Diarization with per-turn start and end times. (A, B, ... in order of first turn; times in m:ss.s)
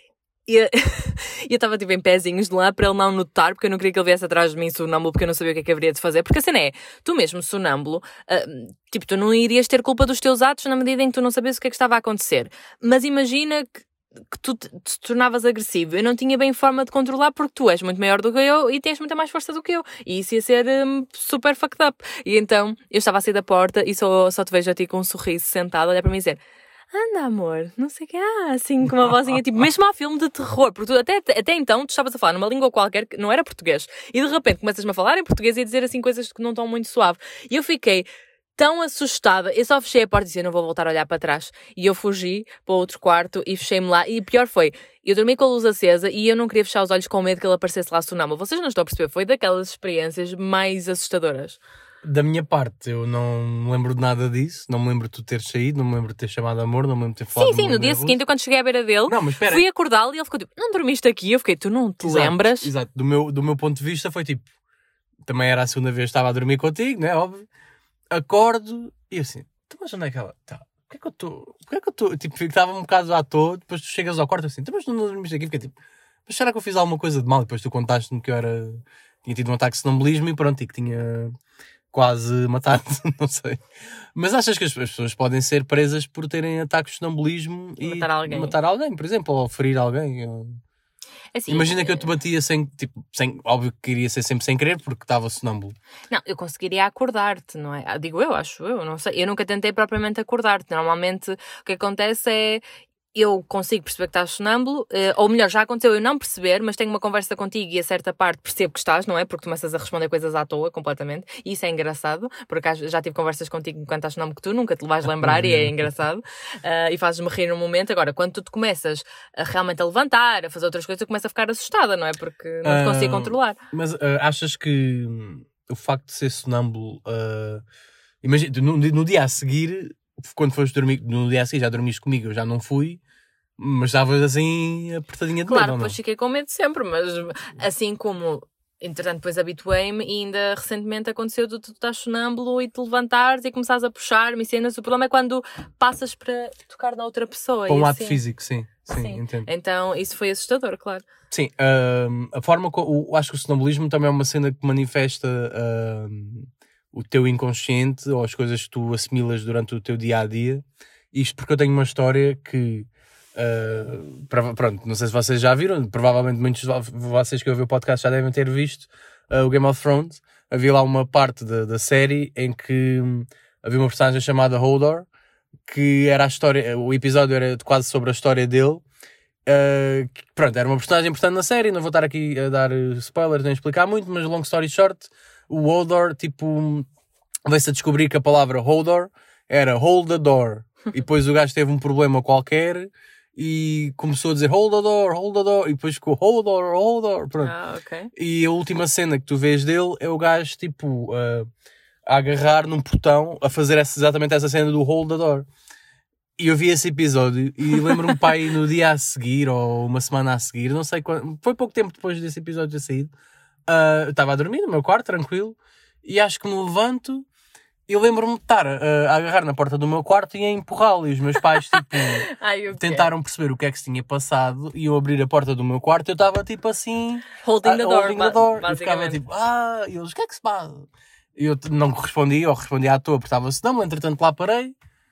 0:00.5-0:26.4 A
0:26.9-0:51.6 A
0:52.0-0:58.2 B
0:57.4-1:02.7 A
0:59.1-0:59.6 B
1:02.0-1:04.5 B
1:05.2-1:07.5 B
1:08.1-1:15.8 B
1:16.3-1:21.3 B
1:21.9-1:23.6 B
1:24.2-1:30.6 B
1:27.8-1:28.6 A
1:31.4-1:32.1 A
1:31.5-1:35.8 B
1:36.1-1:42.6 A
1:43.1-2:03.6 A
1:55.2-1:55.8 B
2:02.6-2:07.6 B
2:08.2-2:13.0 B
2:13.6-2:16.0 B
2:15.5-2:28.2 A
2:27.7-2:29.5 B
2:28.9-2:31.0 A
2:31.3-2:55.1 B
2:55.7-2:58.8 B
2:59.5-3:06.9 B
3:07.5-3:17.5 B
3:17.4-3:18.1 A
3:18.2-3:21.5 B
3:22.1-3:25.5 B
3:26.4-3:33.1 B
3:33.7-3:37.3 B
3:37.9-3:54.7 B
3:41.4-3:43.1 A
3:47.4-3:49.2 A